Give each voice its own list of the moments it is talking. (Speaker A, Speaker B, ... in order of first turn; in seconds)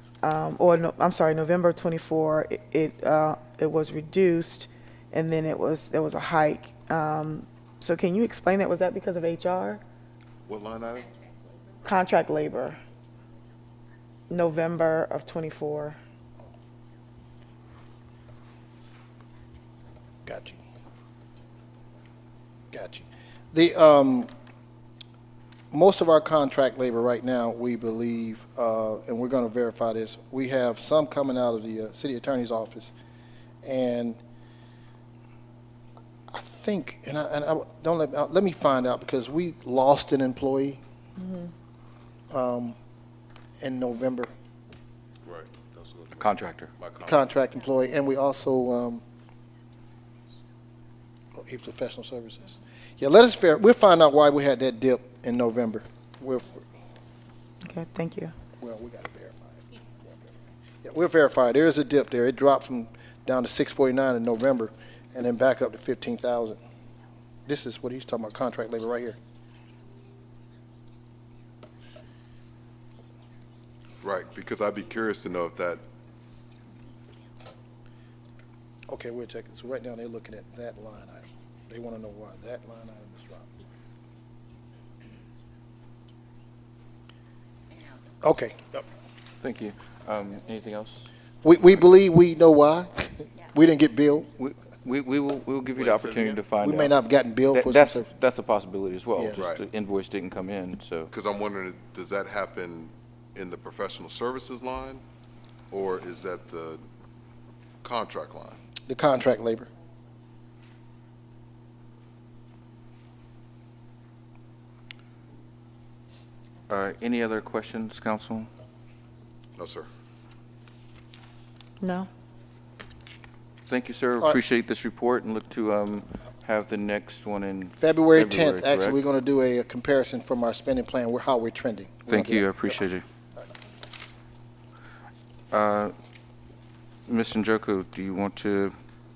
Speaker A: 0.2-9.8, 11.8-12.8, 14.3-16.0, 41.2-41.5, 57.6-58.3, 121.8-122.1
Speaker B: 10.5-11.1, 45.2-47.2, 74.0-75.8, 95.8-96.4, 99.4-99.6, 101.1-105.0, 105.7-106.8, 107.8-108.6, 119.6-119.9
Speaker C: 20.3-20.6, 22.7-24.3, 25.7-32.9, 33.6-34.2, 36.3-40.8, 42.3-42.8, 43.6-44.3, 47.0-49.0, 51.4-56.7, 58.6-60.2, 60.8-66.6, 67.5-69.2, 78.9-83.5, 88.2-88.8, 91.4-94.3, 96.6-98.1, 108.9-109.7, 127.8-132.8
Speaker D: 46.2-46.7, 89.4-91.1, 94.4-96.9, 97.5-101.1, 116.7-118.5, 123.7-129.0, 132.1-133.0, 135.5-135.9, 137.1-138.7